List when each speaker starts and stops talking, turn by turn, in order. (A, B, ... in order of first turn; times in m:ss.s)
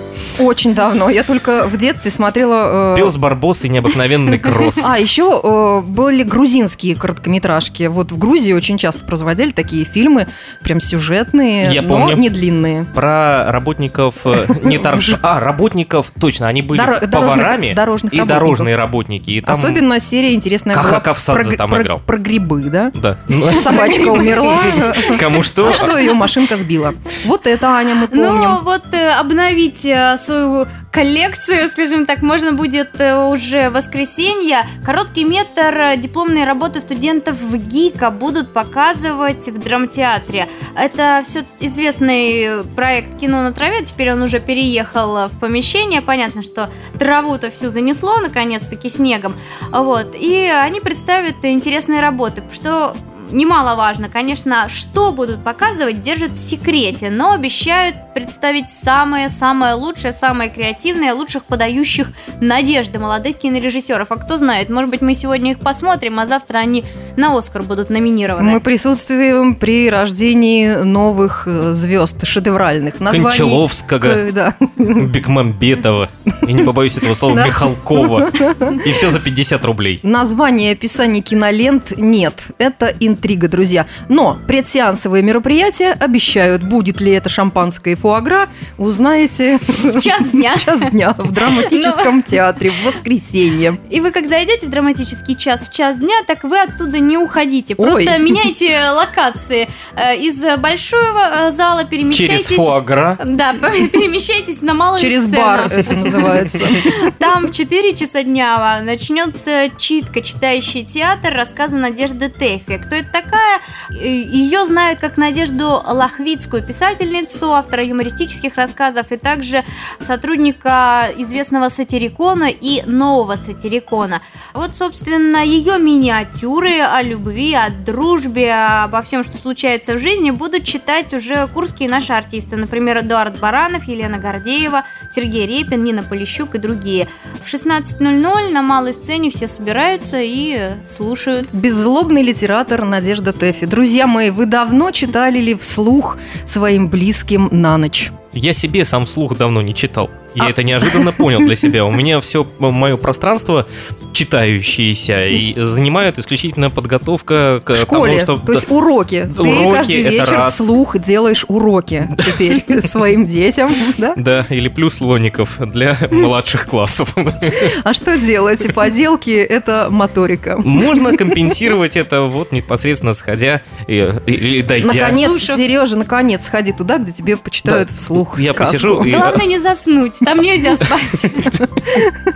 0:00.4-0:03.2 A
0:02.9-0:04.9 B
0:04.8-0:12.9 A
0:11.6-0:12.3 B
0:12.9-0:19.8 B
0:14.5-0:15.2 A
0:16.7-0:18.7 A
0:19.4-0:23.0 A
0:20.7-0:22.0 B
0:23.0-0:26.2 B
0:23.5-0:28.6 A
0:24.0-0:24.5 C
0:28.0-1:08.6 C
1:08.4-1:15.1 A
1:13.1-1:14.3 B
1:15.0-1:20.0 B
1:17.3-1:18.8 A
1:20.0-1:33.8 A
1:30.0-1:32.4 C
1:33.9-1:46.3 C
1:37.8-1:38.4 A
1:42.1-1:43.2 B
1:45.0-1:47.1 A
1:46.9-2:21.5 C
2:21.5-2:28.1 A
2:28.3-2:38.6 B
2:30.4-2:31.2 A
2:37.7-2:44.2 A
2:39.3-2:40.7 B
2:42.3-2:42.6 B
2:44.2-2:47.7 B
2:47.7-2:51.1 A
2:50.6-2:55.2 B
2:54.8-2:59.2 A
2:55.2-2:55.6 C
2:57.7-2:59.4 B
2:59.0-3:01.4 C
3:00.8-3:01.6 B